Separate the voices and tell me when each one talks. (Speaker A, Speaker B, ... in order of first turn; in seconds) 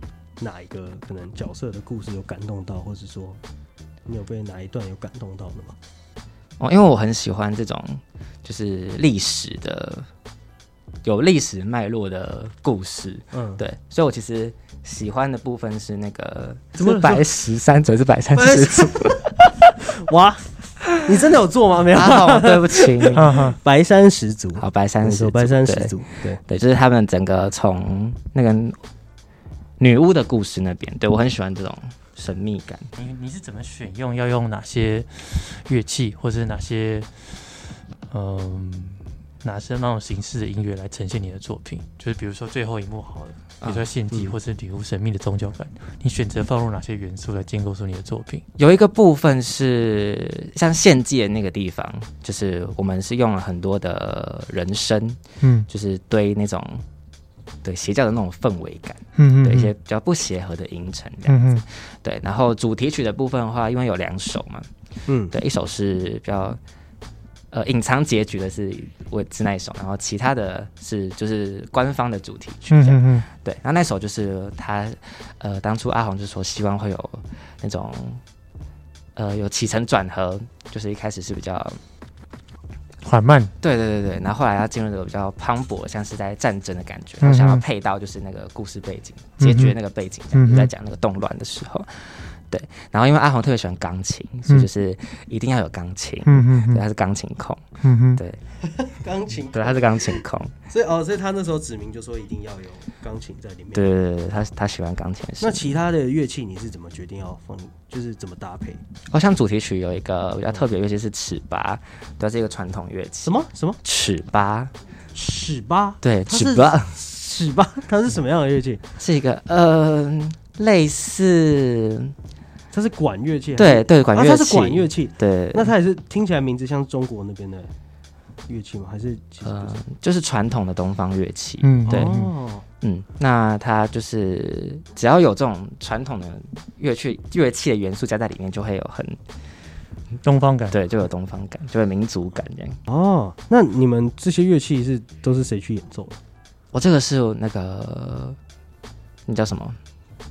Speaker A: 0.4-3.4, 4.1-5.8, 13.3-13.6, 16.8-17.2, 18.4-26.4, 65.1-65.3, 98.6-103.9, 105.4-108.8, 113.2-113.8, 115.2-118.8, 122.7-127.7, 128.5-129.8, 131.9-132.6, 142.9-146.2
Speaker B: 6.6-10.1, 11.0-19.7, 21.9-23.2, 24.6-28.8, 29.8-32.9, 43.6-43.9, 48.6-56.9, 57.6-64.7, 65.3-66.6, 67.5-78.2, 79.2-81.8, 83.6-97.6, 98.2-98.4, 99.5-100.5, 103.7-105.7, 109.1-114.7, 116.0-117.0, 119.0-122.2, 123.6-125.7, 129.4-132.2, 132.8-139.2, 140.7-142.8, 146.7-148.4, 149.3-149.8
Speaker C: 23.2-23.6, 33.0-37.1, 38.1-48.4, 55.4-55.7, 59.2-59.7, 61.3-61.6, 72.7-73.3, 83.0-83.5, 87.2-87.6, 89.4-89.8, 90.3-90.7, 96.3-96.8, 97.8-98.2, 131.6-132.3, 140.2-140.8